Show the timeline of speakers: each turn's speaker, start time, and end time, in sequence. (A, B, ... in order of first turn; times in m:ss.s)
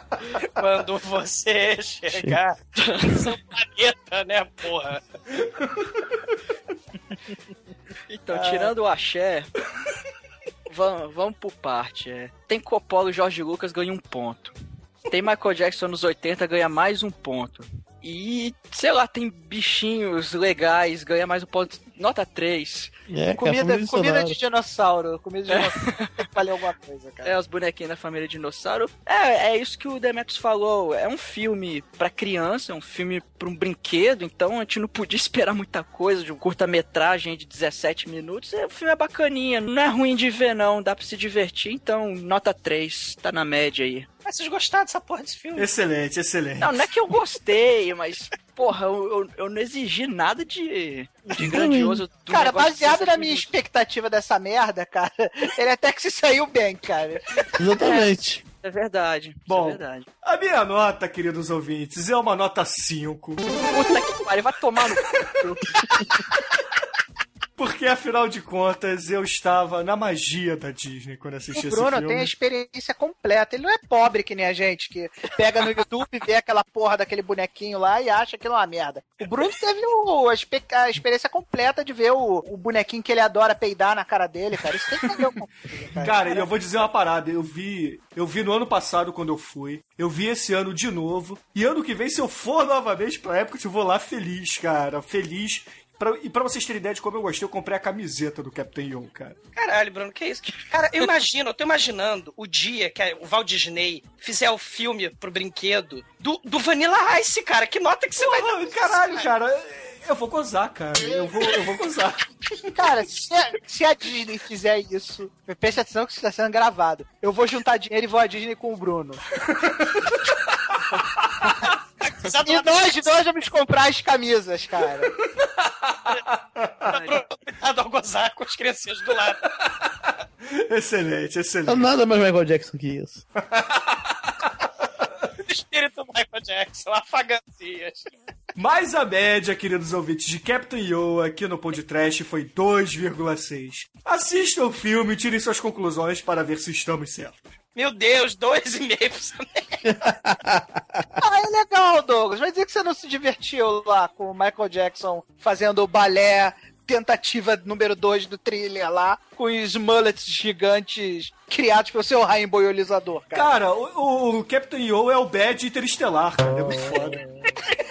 0:00.4-0:05.0 A
0:02.1-0:02.4 B
0:05.6-0:05.9 C
0:08.1-0:09.5 D
0:08.3-0:08.7 E
0:10.7-0:14.6 D
0:15.1-0:22.9 D
0:23.1-0:24.4 B
0:23.4-0:27.4 E
0:25.5-0:26.3 D
0:27.2-0:44.1 D
0:44.3-0:45.7 A
0:45.6-0:46.9 C
0:46.6-0:53.6 D
0:51.3-0:52.0 B
0:52.3-0:57.2 E
0:57.6-0:58.4 B
0:57.8-1:00.1 D
0:59.5-1:03.5 C
1:03.7-1:06.2 D
1:07.6-1:12.3 C
1:11.5-1:26.5 E
1:26.0-1:39.4 C
1:39.6-1:49.3 A
1:48.2-1:52.7 C
1:52.8-1:59.2 E
2:01.4-2:01.7 E
2:02.0-2:03.1 A
2:02.4-2:05.2 E
2:06.6-2:06.9 C
2:06.9-2:09.4 A
2:10.5-2:11.9 C
2:11.7-2:13.2 B
2:13.5-2:14.0 C
2:15.4-2:18.0 A
2:18.6-2:27.5 C
2:27.8-2:29.8 A
2:29.8-2:31.0 B
2:31.2-2:43.5 E
2:43.3-2:47.2 C